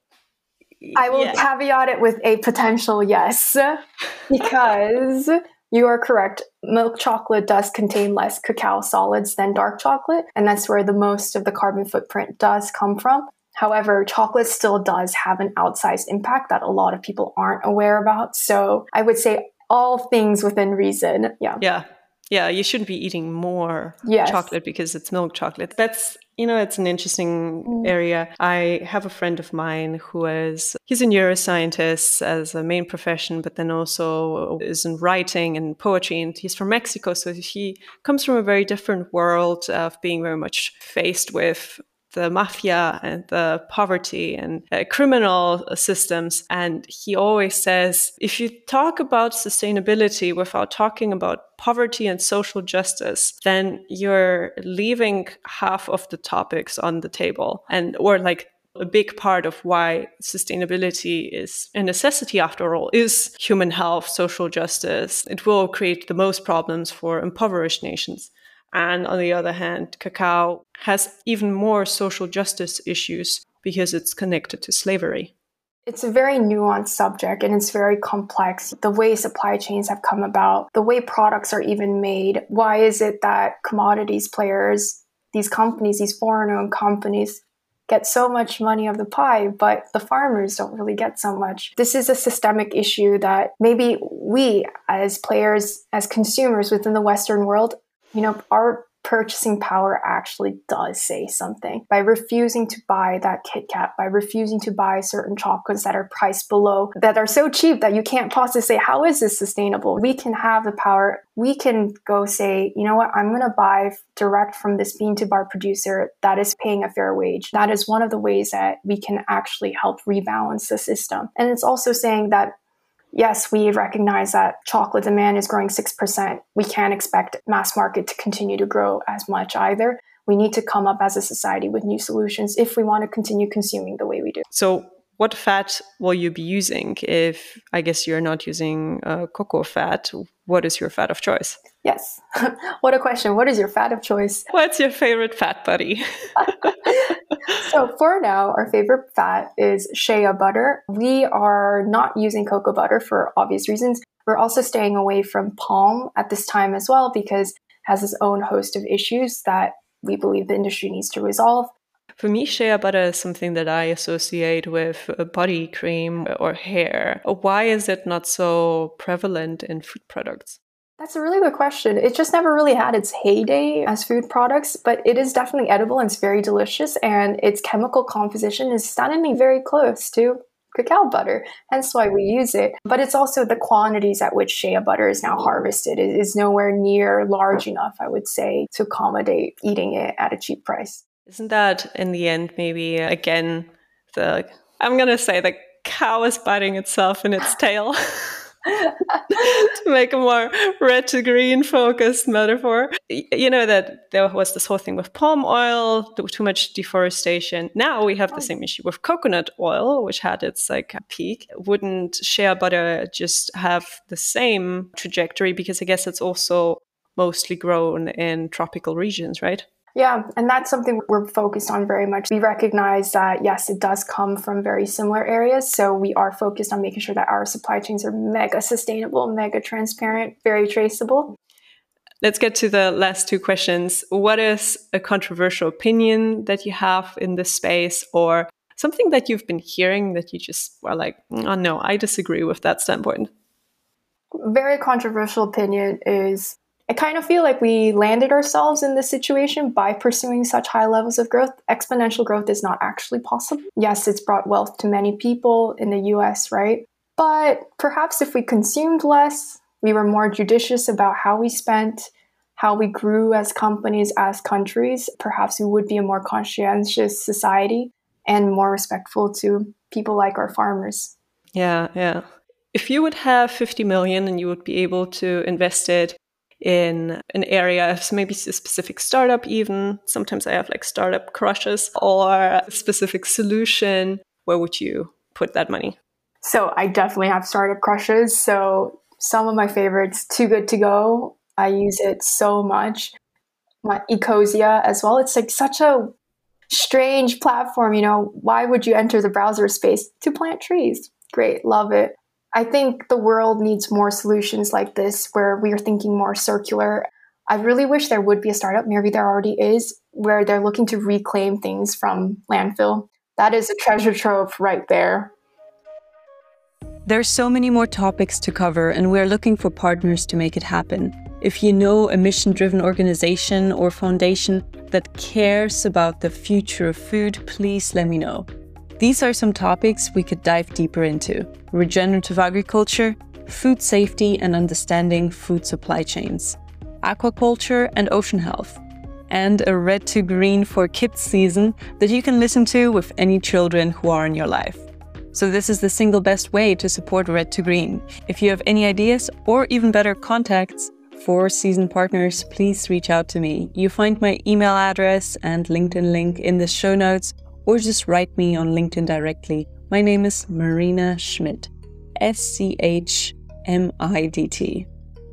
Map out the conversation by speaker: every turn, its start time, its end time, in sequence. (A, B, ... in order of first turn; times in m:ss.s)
0:00.8-0:01.4 A
0:01.0-0:21.6 B
0:21.6-1:15.3 A
0:24.0-0:24.5 B
0:27.7-0:27.9 B
1:15.9-2:02.5 B
2:03.1-2:14.4 B
2:14.5-2:21.6 A
2:21.8-2:24.5 B
2:24.5-2:26.8 A
2:26.6-2:41.7 B
2:42.2-2:50.6 A
2:51.0-3:11.0 B
3:11.3-3:18.5 A
3:19.2-3:39.6 A
3:40.0-3:51.4 B
3:52.2-4:03.3 A
4:04.4-4:31.1 B
4:31.5-4:46.0 A
4:46.4-4:53.1 B
4:53.8-4:56.1 B
4:56.7-5:15.3 B
5:17.1-5:28.5 C
5:29.0-6:04.9 C